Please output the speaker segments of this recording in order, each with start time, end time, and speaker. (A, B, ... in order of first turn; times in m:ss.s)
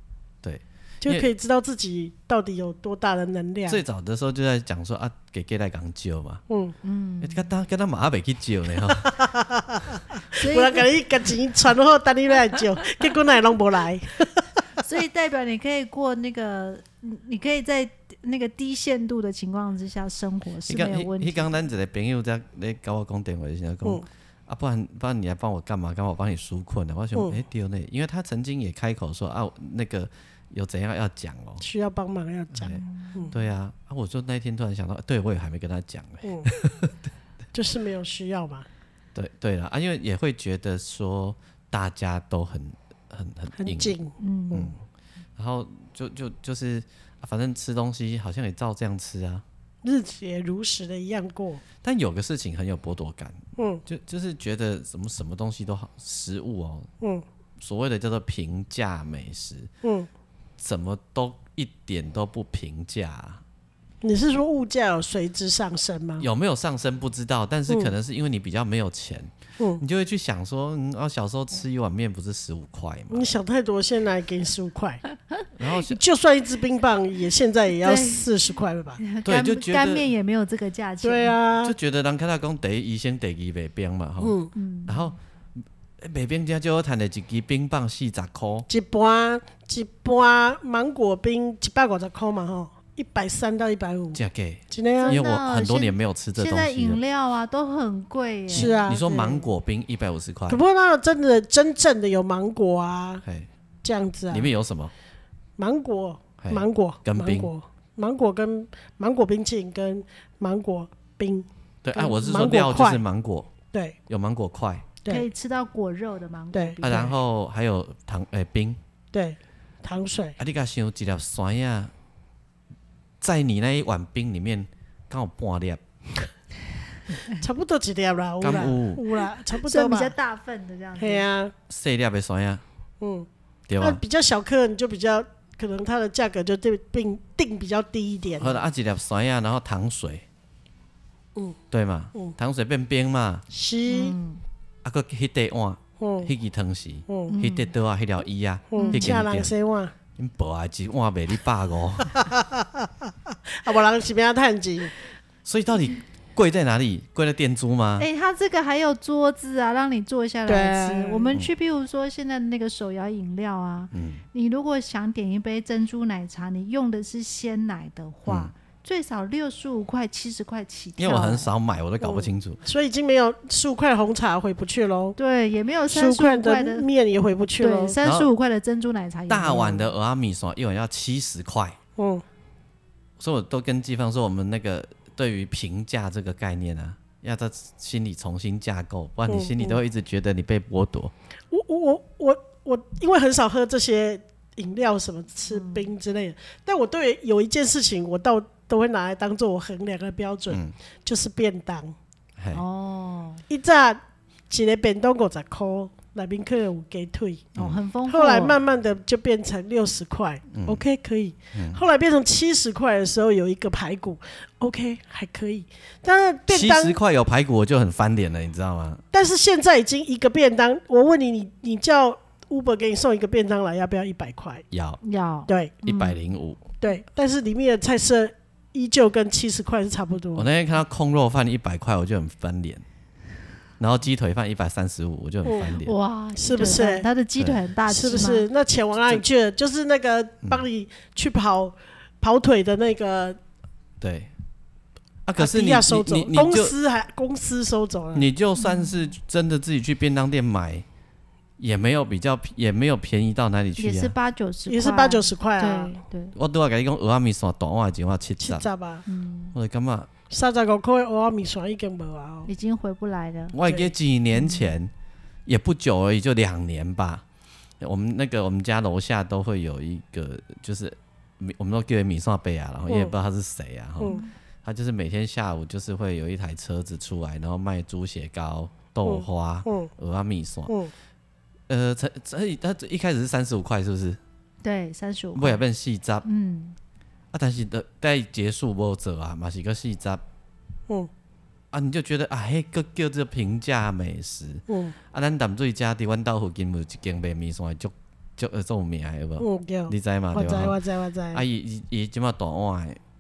0:00.4-0:01.3 A
0:01.0-0:03.8 B
0:03.7-0:06.4 A
0:06.5-0:06.8 B
0:06.8-0:07.5 C
0:07.2-0:09.2 A
0:08.9-0:14.4 B
0:10.4-0:10.9 C
0:14.8-0:21.6 C
0:20.7-0:31.6 A
0:31.6-0:33.3 B
0:32.6-0:37.1 A
0:32.7-0:33.5 C
0:36.2-0:36.5 B
0:37.5-0:38.7 B
0:39.2-0:44.0 A
0:43.6-0:44.7 B
0:44.2-0:44.7 C
0:45.4-0:49.4 A
0:49.8-0:51.6 B
0:51.8-0:56.9 A
0:53.6-0:53.8 B
0:57.6-0:59.7 A
0:59.8-1:00.1 B
1:00.6-1:03.4 A
1:04.0-1:06.3 B
1:06.2-1:13.3 A
1:13.1-1:15.0 B
1:15.6-1:16.0 A
1:15.8-1:19.0 B
1:17.8-1:18.3 C
1:19.0-1:21.4 C
1:19.2-1:20.1 A
1:21.0-1:21.8 B
1:21.6-1:24.4 A
1:24.2-1:24.5 B
1:24.6-1:25.1 C
1:24.9-1:25.2 A
1:26.0-1:28.7 A
1:28.7-1:34.2 B
1:34.2-1:37.0 A
1:34.7-1:35.2 B
1:35.0-1:38.8 C
1:38.5-1:39.5 B
1:38.5-1:40.6 A
1:40.5-1:43.2 B
1:43.8-1:44.5 B
1:44.3-1:44.9 A
1:45.6-1:53.0 B
1:46.4-1:47.5 A
1:51.8-1:53.5 A
1:54.1-1:54.9 A
1:55.1-1:56.8 C
1:56.5-1:57.1 B
1:56.8-1:58.8 A
1:59.1-2:00.4 B
2:00.4-2:01.9 A
2:03.2-2:05.8 A
2:07.3-2:10.1 B
2:08.4-2:09.0 A
2:09.6-2:11.3 C
2:11.0-2:11.5 B
2:11.7-2:12.6 A
2:13.0-2:13.3 B
2:13.7-2:14.0 A
2:13.8-2:18.6 B
2:18.4-2:20.2 A
2:21.7-2:23.4 A
2:23.5-2:24.2 B
2:23.9-2:24.4 C
2:24.8-2:29.5 A
2:26.0-2:26.3 B
2:27.1-2:27.4 B
2:27.3-2:27.7 C
2:28.7-2:29.9 B
2:28.8-2:29.1 C
2:30.2-2:32.3 A
2:32.2-2:32.9 B
2:33.5-2:34.9 B
2:35.4-2:38.1 A
2:38.0-2:51.5 C
2:40.5-2:41.4 B
2:43.9-2:44.2 A
2:48.3-2:48.5 A
2:51.0-2:52.6 A
2:52.0-2:55.2 B
2:55.2-2:56.9 C
2:55.9-2:58.0 B
2:57.6-2:59.9 C
2:58.0-2:58.3 A
2:59.3-3:01.8 A
3:02.0-3:02.2 B
3:03.2-3:11.1 A
3:09.3-3:09.8 B
3:11.5-3:22.0 B
3:15.5-3:15.9 C
3:22.4-3:22.6 A
3:22.5-3:23.4 C
3:23.5-3:27.5 B
3:27.6-3:28.6 C
3:28.1-3:37.0 B
3:30.5-3:30.8 A
3:31.5-3:31.8 A
3:36.5-3:39.0 A
3:39.1-3:44.6 B
3:44.7-3:45.0 A
3:45.0-3:46.2 C
3:45.5-3:45.7 B
3:45.8-3:46.6 A
3:46.8-3:50.5 B
3:50.4-3:52.8 A
3:53.8-3:55.9 A
3:55.6-3:58.5 C
3:56.4-3:57.1 B
3:57.9-4:03.4 B
4:04.0-4:04.3 A
4:05.2-4:06.7 A
4:05.4-4:08.3 B
4:08.2-4:10.9 A
4:08.6-4:09.1 C
4:11.6-4:14.1 A
4:13.8-4:16.3 C
4:14.7-4:16.0 B
4:16.4-4:18.7 A
4:18.4-4:19.0 B
4:19.1-4:19.6 C
4:19.6-4:20.1 A
4:20.3-4:22.5 B
4:22.5-4:23.6 C
4:23.5-4:24.9 A
4:24.3-4:24.7 C
4:25.5-4:27.2 A
4:27.8-4:40.7 A
4:32.9-4:33.1 B
4:34.1-4:34.3 C
4:39.0-4:39.9 B
4:41.7-4:44.2 A
4:44.6-4:45.6 C
4:45.4-4:46.2 A
4:46.2-4:46.8 C
4:47.3-4:50.2 A
4:51.7-5:00.8 A
4:54.7-4:55.0 B
4:59.4-5:01.4 B
5:01.3-5:03.0 A